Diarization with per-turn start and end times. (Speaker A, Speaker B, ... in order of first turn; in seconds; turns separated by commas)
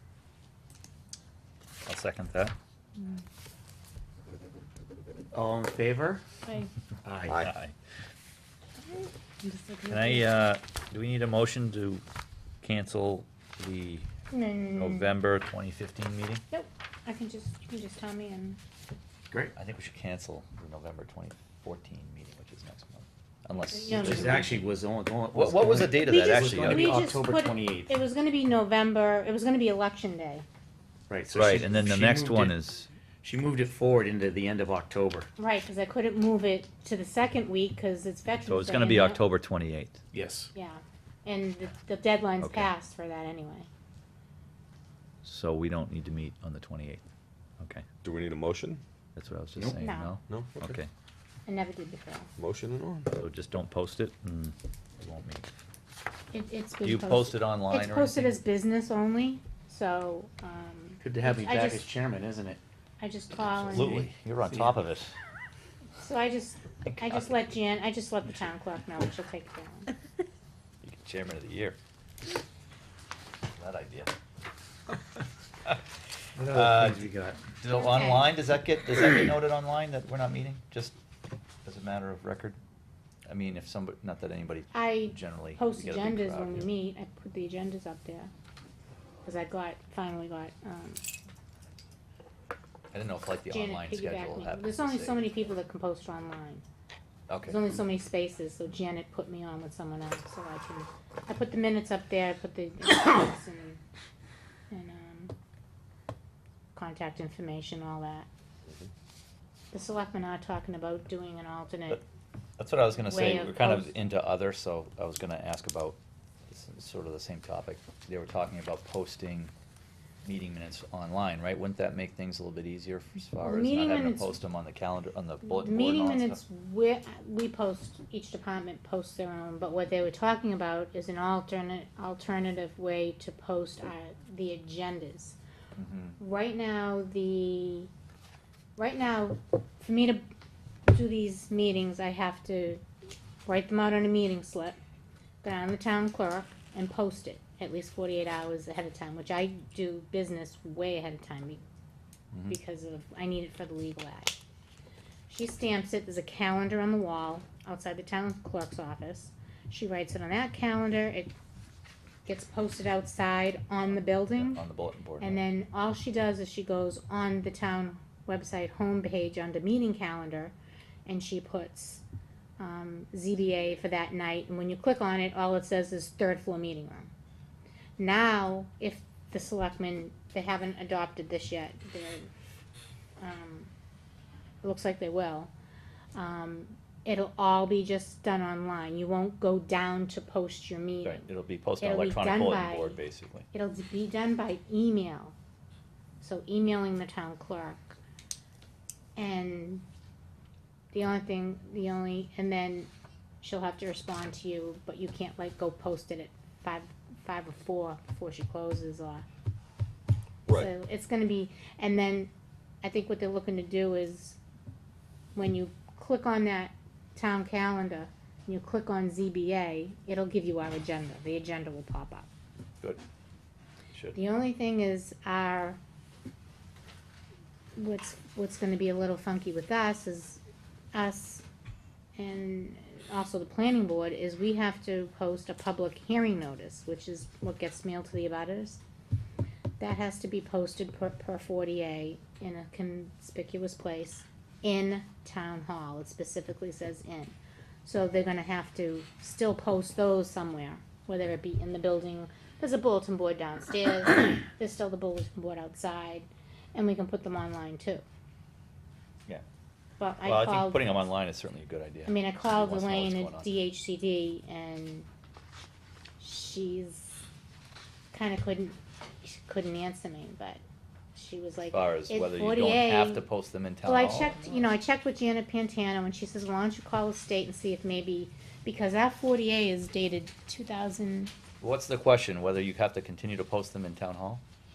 Speaker A: 1.9-2.5, Speaker B: 5.3-6.2, Speaker C: 6.4-6.7, Speaker B: 7.0-7.4, Speaker A: 7.3-7.7, Speaker C: 8.8-10.3, Speaker A: 9.9-12.0, Speaker A: 12.6-14.1, Speaker C: 14.3-15.1, Speaker A: 14.8-16.4, Speaker C: 16.5-18.6, Speaker A: 19.5-24.7, Speaker C: 23.7-24.5, Speaker B: 23.9-27.9, Speaker A: 25.3-27.0, Speaker C: 26.1-30.5, Speaker B: 31.1-32.5, Speaker A: 31.3-32.9, Speaker B: 33.2-35.3, Speaker C: 35.4-39.2, Speaker A: 38.5-40.0, Speaker B: 40.1-40.5, Speaker C: 40.5-43.7, Speaker A: 42.4-42.7, Speaker A: 45.2-47.0, Speaker A: 47.6-47.8, Speaker D: 48.0-48.8, Speaker A: 49.1-50.9, Speaker C: 49.8-50.1, Speaker D: 50.3-50.7, Speaker C: 51.5-52.3, Speaker D: 52.4-53.1, Speaker A: 53.1-55.5, Speaker C: 56.3-61.9, Speaker A: 56.8-58.3, Speaker B: 61.0-62.6, Speaker C: 63.0-64.1, Speaker B: 63.5-64.8, Speaker A: 63.7-65.1, Speaker C: 66.0-69.9, Speaker A: 66.9-67.2, Speaker A: 70.8-71.8, Speaker A: 73.5-74.1, Speaker B: 76.4-77.4, Speaker A: 76.5-80.9, Speaker C: 77.7-78.3, Speaker A: 81.6-82.6, Speaker A: 83.3-86.7, Speaker C: 84.7-88.3, Speaker C: 89.2-91.0, Speaker A: 92.9-95.2, Speaker C: 93.5-96.6, Speaker A: 97.3-97.6, Speaker C: 97.5-103.8, Speaker C: 104.7-105.3, Speaker C: 106.7-108.3, Speaker C: 109.7-112.0, Speaker A: 112.6-119.5, Speaker C: 113.1-113.9, Speaker A: 120.2-126.4, Speaker C: 123.4-124.4, Speaker C: 125.5-135.4, Speaker A: 135.8-136.2, Speaker C: 136.2-137.9, Speaker C: 138.8-140.3, Speaker C: 140.9-142.8, Speaker C: 143.4-144.8, Speaker C: 145.4-151.6, Speaker A: 152.3-152.6, Speaker C: 152.5-154.3, Speaker C: 155.3-161.3, Speaker C: 162.3-164.6, Speaker A: 163.9-165.4, Speaker C: 165.2-170.6, Speaker C: 171.1-172.0, Speaker C: 172.6-177.1, Speaker C: 178.0-182.3, Speaker C: 183.2-183.7, Speaker C: 184.6-185.5, Speaker C: 186.2-191.3, Speaker A: 191.0-193.5, Speaker C: 191.8-193.0, Speaker C: 193.5-195.3, Speaker C: 196.2-198.0, Speaker C: 199.2-199.8, Speaker C: 200.9-202.9, Speaker C: 203.4-209.2, Speaker C: 210.5-212.3, Speaker C: 212.8-214.4, Speaker C: 215.3-222.3, Speaker C: 224.1-225.8, Speaker C: 227.8-230.4, Speaker C: 230.9-231.4, Speaker C: 232.2-238.8, Speaker C: 239.8-258.0, Speaker C: 260.0-261.1, Speaker A: 260.2-263.5, Speaker C: 262.1-265.1, Speaker C: 266.2-267.2, Speaker C: 268.1-270.6, Speaker C: 271.1-273.3, Speaker A: 271.7-274.6, Speaker C: 273.8-281.3, Speaker A: 281.6-284.4